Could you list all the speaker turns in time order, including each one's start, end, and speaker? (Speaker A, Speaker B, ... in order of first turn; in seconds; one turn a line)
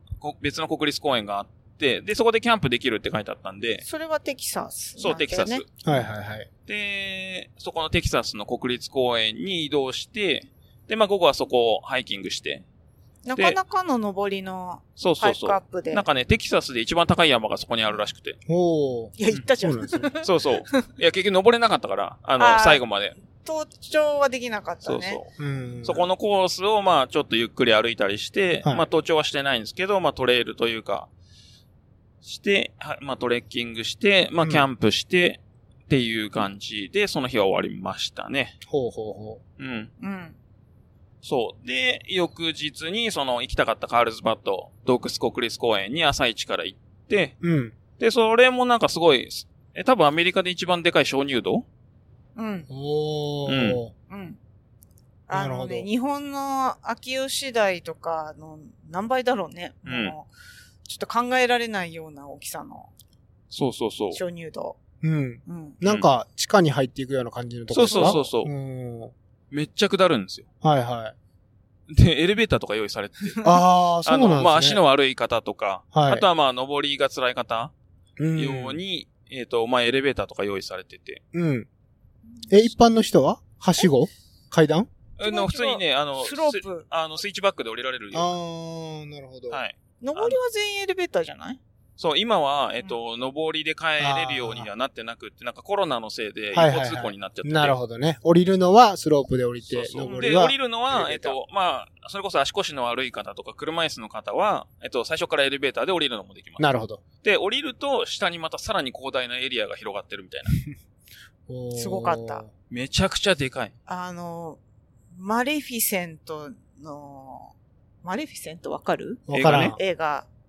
Speaker A: 0.2-3.8
Speaker B: 3.8-5.6
Speaker A: 5.0-5.7
Speaker C: 5.8-6.5
Speaker A: 6.7-12.6
Speaker B: 13.2-16.1
Speaker A: 15.0-18.4
Speaker C: 18.5-20.1
Speaker B: 19.2-20.9
Speaker A: 20.2-23.1
Speaker B: 22.4-25.2
Speaker A: 24.8-25.3
Speaker C: 25.4-26.1
Speaker A: 25.8-31.1
Speaker A: 32.2-38.5
Speaker C: 34.4-34.7
Speaker C: 38.7-39.4
Speaker A: 39.6-39.9
Speaker B: 40.0-40.4
Speaker A: 41.2-47.3
Speaker C: 47.4-47.8
Speaker A: 48.0-51.7
Speaker B: 52.4-52.7
Speaker C: 52.7-53.9
Speaker A: 53.5-53.8
Speaker B: 54.1-54.4
Speaker B: 55.3-60.3
Speaker C: 55.3-55.9
Speaker A: 59.8-60.1
Speaker B: 60.9-62.9
Speaker A: 63.5-64.2
Speaker B: 64.1-64.8
Speaker C: 65.0-69.1
Speaker B: 65.5-65.8
Speaker A: 67.7-68.5
Speaker B: 67.8-68.2
Speaker A: 69.5-70.5
Speaker C: 70.6-71.1
Speaker A: 71.9-73.4
Speaker C: 73.4-74.8
Speaker A: 74.0-77.7
Speaker C: 75.9-76.2
Speaker C: 78.2-78.8
Speaker A: 78.3-81.2
Speaker C: 81.3-81.7
Speaker C: 82.5-84.9
Speaker A: 85.2-88.3
Speaker B: 85.2-86.9
Speaker C: 88.1-89.6
Speaker A: 89.5-90.4
Speaker B: 90.0-91.6
Speaker A: 92.0-97.8
Speaker C: 94.0-94.7
Speaker C: 96.5-101.4
Speaker A: 99.7-106.6
Speaker B: 100.0-100.4
Speaker C: 106.6-107.0
Speaker A: 107.2-110.6
Speaker C: 111.5-112.5
Speaker B: 111.7-112.4
Speaker A: 112.7-113.7
Speaker B: 113.8-114.6
Speaker B: 115.1-120.3
Speaker C: 119.3-119.8
Speaker A: 119.3-119.8